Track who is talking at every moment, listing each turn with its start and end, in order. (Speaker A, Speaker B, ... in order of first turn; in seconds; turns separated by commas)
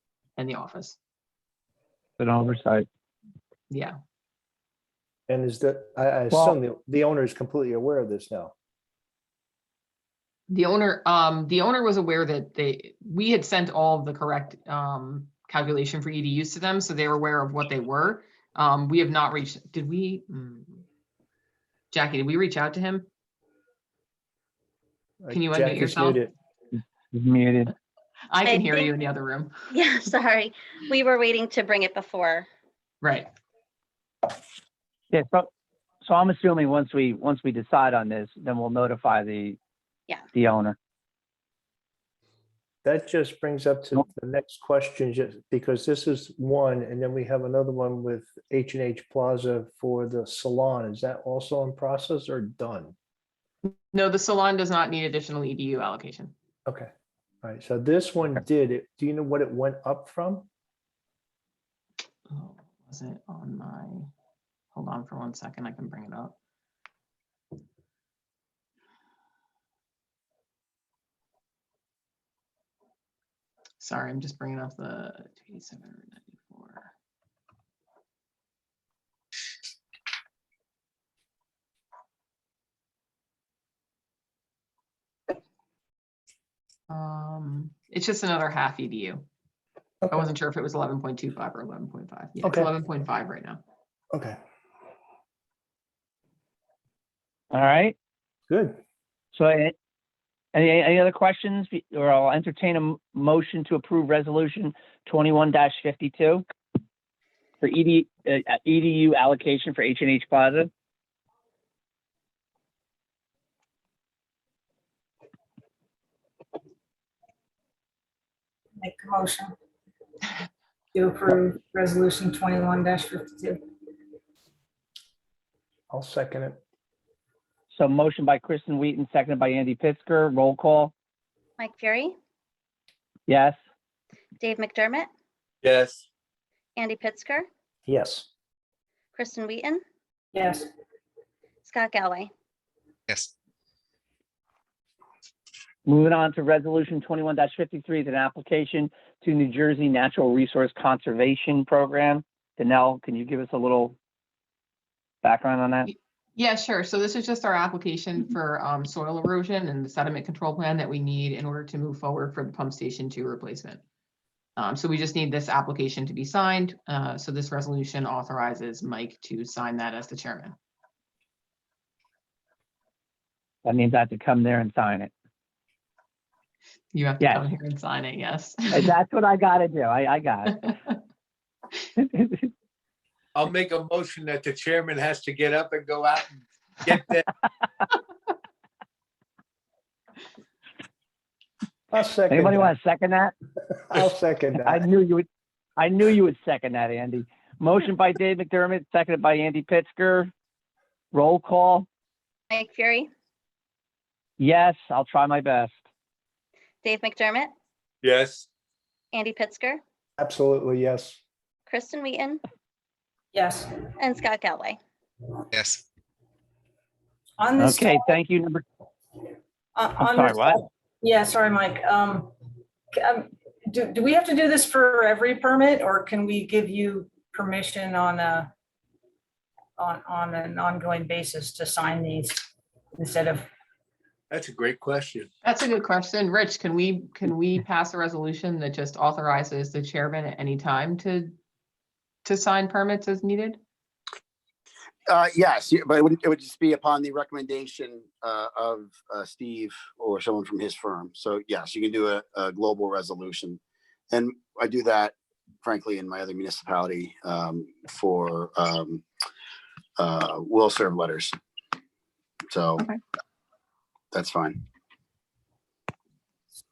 Speaker A: 0.4-1.0, Speaker B: 2.2-2.9, Speaker A: 3.7-4.0, Speaker C: 5.3-8.5, Speaker B: 6.3-6.6, Speaker A: 10.5-20.8, Speaker A: 21.9-23.1, Speaker C: 25.2-26.3, Speaker A: 25.3-26.2, Speaker B: 27.1-27.7, Speaker A: 28.3-29.5, Speaker D: 28.4-28.9, Speaker D: 29.7-32.5, Speaker A: 33.0-33.3, Speaker B: 35.1-35.5, Speaker B: 36.0-39.6, Speaker B: 40.3-40.8, Speaker C: 42.8-52.9, Speaker A: 53.6-56.3, Speaker C: 57.4-60.5, Speaker A: 62.3-64.1, Speaker A: 64.7-66.3, Speaker A: 73.8-76.9, Speaker A: 86.9-89.2, Speaker A: 90.1-93.6, Speaker C: 92.4-92.7, Speaker C: 94.1-94.4, Speaker B: 97.5-97.9, Speaker C: 98.5-98.8, Speaker B: 99.3-99.7, Speaker B: 100.5-106.4, Speaker B: 107.6-110.7, Speaker E: 118.8-119.5, Speaker E: 120.9-123.6, Speaker C: 125.9-126.6, Speaker B: 127.7-130.9, Speaker D: 131.6-132.1, Speaker B: 133.3-133.6, Speaker D: 134.4-135.1, Speaker F: 135.6-136.1, Speaker D: 136.8-137.5, Speaker C: 137.9-138.3, Speaker D: 139.2-139.8, Speaker E: 140.3-140.7, Speaker D: 141.6-142.3, Speaker B: 145.8-153.9, Speaker B: 155.2-155.9, Speaker A: 155.9-163.8, Speaker A: 164.6-170.6, Speaker B: 173.6-175.1, Speaker A: 176.9-178.8, Speaker B: 177.2-177.4, Speaker B: 178.7-180.7, Speaker B: 182.0-182.5, Speaker F: 183.3-187.3, Speaker C: 191.9-192.7, Speaker B: 192.3-193.3, Speaker C: 193.7-194.8, Speaker B: 194.6-195.2, Speaker B: 195.8-200.3, Speaker B: 201.1-201.9, Speaker D: 202.5-203.1, Speaker B: 204.4-205.8, Speaker D: 206.8-207.5, Speaker F: 208.0-208.5, Speaker D: 209.1-209.8, Speaker C: 210.2-211.2, Speaker D: 211.7-212.4, Speaker E: 213.3-213.9, Speaker D: 214.0-214.8, Speaker E: 217.4-218.2, Speaker B: 217.6-218.6, Speaker E: 219.7-222.3, Speaker B: 220.0-220.6, Speaker E: 222.9-228.5, Speaker E: 229.8-233.5, Speaker F: 234.3-235.3, Speaker A: 235.4-241.3, Speaker A: 242.2-243.6, Speaker G: 245.1-253.6, Speaker G: 254.1-259.0, Speaker G: 260.0-261.3, Speaker G: 262.5-262.8, Speaker G: 264.1-264.6